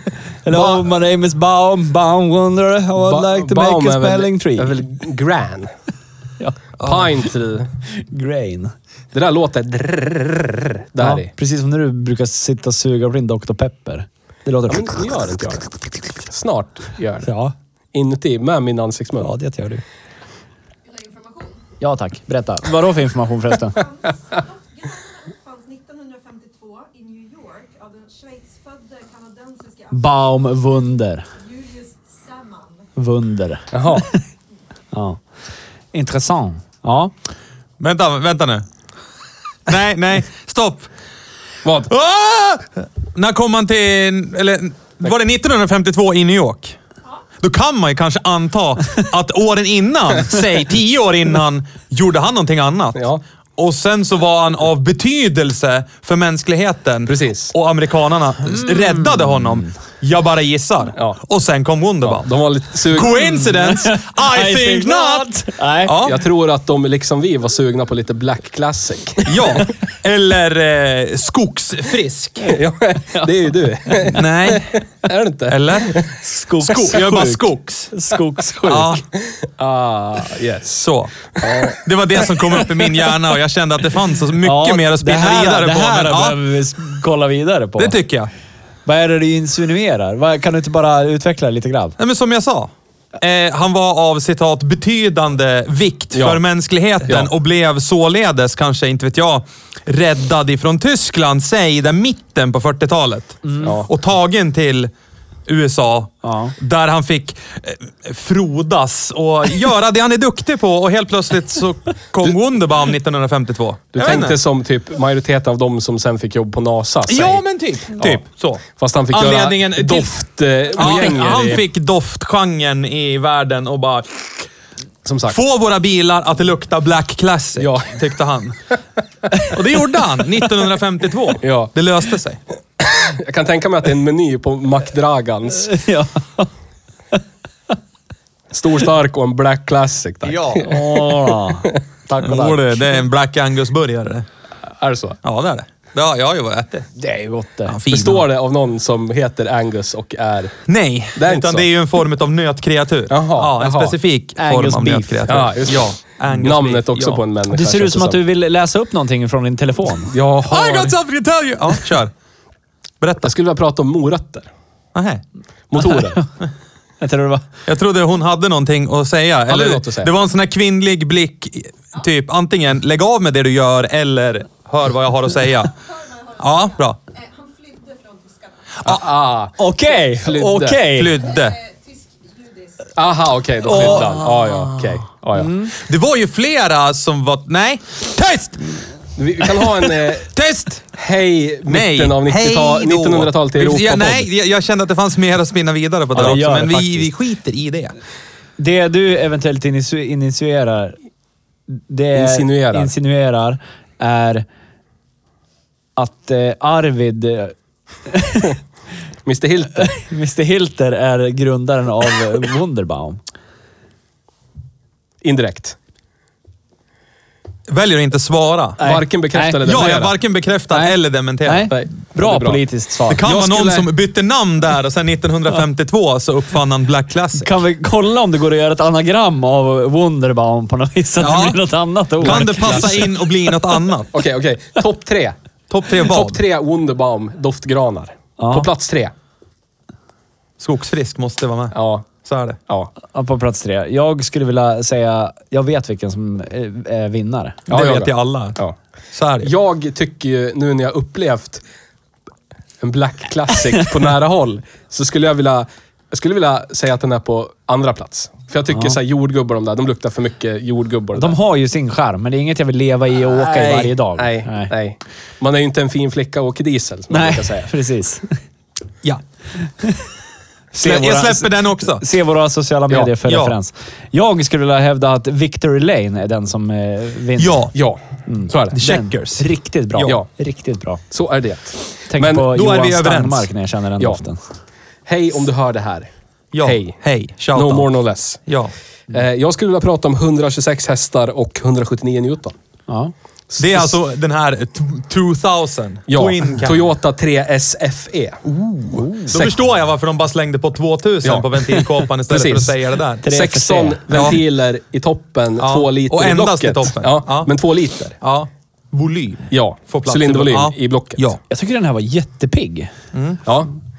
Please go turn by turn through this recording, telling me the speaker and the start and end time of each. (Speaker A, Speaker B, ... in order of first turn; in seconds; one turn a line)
Speaker A: 0.4-4.8
Speaker B: 0.5-0.8
Speaker C: 3.0-5.7
Speaker C: 6.8-7.7
Speaker A: 7.9-8.7
Speaker C: 9.1-11.3
Speaker A: 11.0-15.1
Speaker C: 14.7-17.3
Speaker A: 17.2-17.5
Speaker C: 17.9-19.3
Speaker A: 19.2-19.8
Speaker D: 20.9-21.6
Speaker A: 21.8-23.9
Speaker D: 23.7-30.0
Speaker A: 29.9-31.3
Speaker D: 31.4-32.9
Speaker A: 33.0-34.1
Speaker C: 33.7-34.1
Speaker A: 34.9-35.2
Speaker A: 35.9-37.1
Speaker B: 37.8-38.6
Speaker B: 39.7-40.9
Speaker C: 41.6-41.9
Speaker B: 41.9-46.8
Speaker B: 47.4-66.2
Speaker C: 53.0-53.2
Speaker C: 57.1-57.5
Speaker A: 58.6-59.6
Speaker C: 62.0-63.3
Speaker A: 63.4-66.0
Speaker C: 65.9-69.7
Speaker B: 69.3-72.6
Speaker C: 72.4-76.1
Speaker B: 74.1-74.8
Speaker B: 75.5-76.1
Speaker A: 76.2-79.0
Speaker B: 76.6-77.9
Speaker B: 78.7-79.0
Speaker C: 79.2-80.9
Speaker B: 80.8-81.1
Speaker C: 81.4-81.7
Speaker B: 81.7-86.4
Speaker A: 84.4-88.0
Speaker B: 87.8-88.3
Speaker A: 88.8-92.0
Speaker B: 92.0-104.9
Speaker C: 96.1-96.4
Speaker C: 97.0-97.3
Speaker A: 103.5-103.7
Speaker C: 103.6-103.9
Speaker B: 105.5-114.4
Speaker A: 106.2-106.5
Speaker C: 113.9-121.6
Speaker B: 117.1-120.1
Speaker B: 120.7-124.3
Speaker C: 125.0-125.4
Speaker B: 125.3-128.6
Speaker C: 127.6-128.0
Speaker B: 129.5-132.4
Speaker C: 131.4-131.7
Speaker C: 132.8-135.7
Speaker A: 135.7-136.5
Speaker C: 138.5-141.0
Speaker B: 140.2-140.7
Speaker A: 140.7-143.0
Speaker B: 142.2-144.3
Speaker C: 144.7-145.2
Speaker B: 145.2-146.9
Speaker A: 147.0-147.8
Speaker B: 147.7-148.2
Speaker C: 147.9-150.6
Speaker B: 150.7-157.2
Speaker C: 151.2-151.7
Speaker C: 153.1-154.0
Speaker A: 154.4-155.3
Speaker C: 155.3-158.2
Speaker A: 157.5-160.1
Speaker C: 160.1-160.9
Speaker B: 160.5-162.1
Speaker B: 163.0-163.3
Speaker C: 163.2-164.5
Speaker B: 164.9-165.2
Speaker C: 165.7-166.2
Speaker A: 167.0-167.4
Speaker B: 167.7-175.8
Speaker C: 169.5-170.1
Speaker D: 176.1-178.6
Speaker B: 176.4-177.0
Speaker C: 178.8-180.9
Speaker A: 179.6-181.2
Speaker B: 180.9-181.6
Speaker D: 181.5-182.9
Speaker C: 183.0-185.5
Speaker A: 183.7-184.1
Speaker B: 183.7-184.2
Speaker A: 185.3-185.7
Speaker B: 185.7-188.7
Speaker C: 189.2-190.3
Speaker B: 189.5-190.9
Speaker C: 190.9-194.3
Speaker B: 191.7-197.9
Speaker A: 196.2-197.1
Speaker A: 198.6-201.0
Speaker A: 201.7-204.4
Speaker C: 202.2-202.9
Speaker A: 206.0-207.5
Speaker A: 208.1-208.6
Speaker C: 209.2-209.9
Speaker A: 209.8-213.2
Speaker C: 215.2-215.8
Speaker B: 217.7-218.8
Speaker C: 218.8-220.1
Speaker A: 218.8-219.9
Speaker B: 219.6-221.7
Speaker A: 220.7-223.2
Speaker C: 221.7-223.9
Speaker B: 223.1-227.5
Speaker A: 227.3-233.1
Speaker B: 231.2-231.6
Speaker B: 232.2-234.1
Speaker C: 232.2-233.1
Speaker C: 234.1-235.4
Speaker B: 235.7-236.4
Speaker C: 235.9-239.1
Speaker A: 238.4-238.7
Speaker B: 240.6-242.6
Speaker C: 241.7-242.1
Speaker A: 243.1-247.6
Speaker B: 247.7-248.6
Speaker C: 247.7-248.8
Speaker B: 249.1-249.5
Speaker C: 249.4-251.6
Speaker C: 252.8-261.4
Speaker A: 258.7-259.0
Speaker A: 261.1-264.7
Speaker C: 263.1-267.7
Speaker A: 267.1-268.4
Speaker A: 270.7-277.6
Speaker B: 270.8-272.0
Speaker B: 273.3-273.5
Speaker B: 277.4-277.7
Speaker C: 277.7-278.8
Speaker A: 278.3-281.0
Speaker B: 278.7-280.1
Speaker C: 281.1-282.5
Speaker A: 282.1-284.4
Speaker B: 282.4-283.5
Speaker C: 285.1-286.1
Speaker B: 286.5-287.9
Speaker C: 286.6-287.0
Speaker C: 287.5-288.4
Speaker B: 288.5-288.7
Speaker C: 289.1-292.6
Speaker A: 292.9-293.1
Speaker C: 293.5-293.9
Speaker B: 293.6-296.8
Speaker C: 296.1-299.6
Speaker A: 298.9-299.3
Speaker B: 299.3-303.2
Speaker C: 301.2-308.2
Speaker A: 303.2-304.4
Speaker B: 304.1-304.4
Speaker B: 305.6-307.5
Speaker B: 308.2-311.4
Speaker C: 309.5-311.2
Speaker A: 311.5-312.9
Speaker B: 313.1-313.4
Speaker C: 313.4-313.7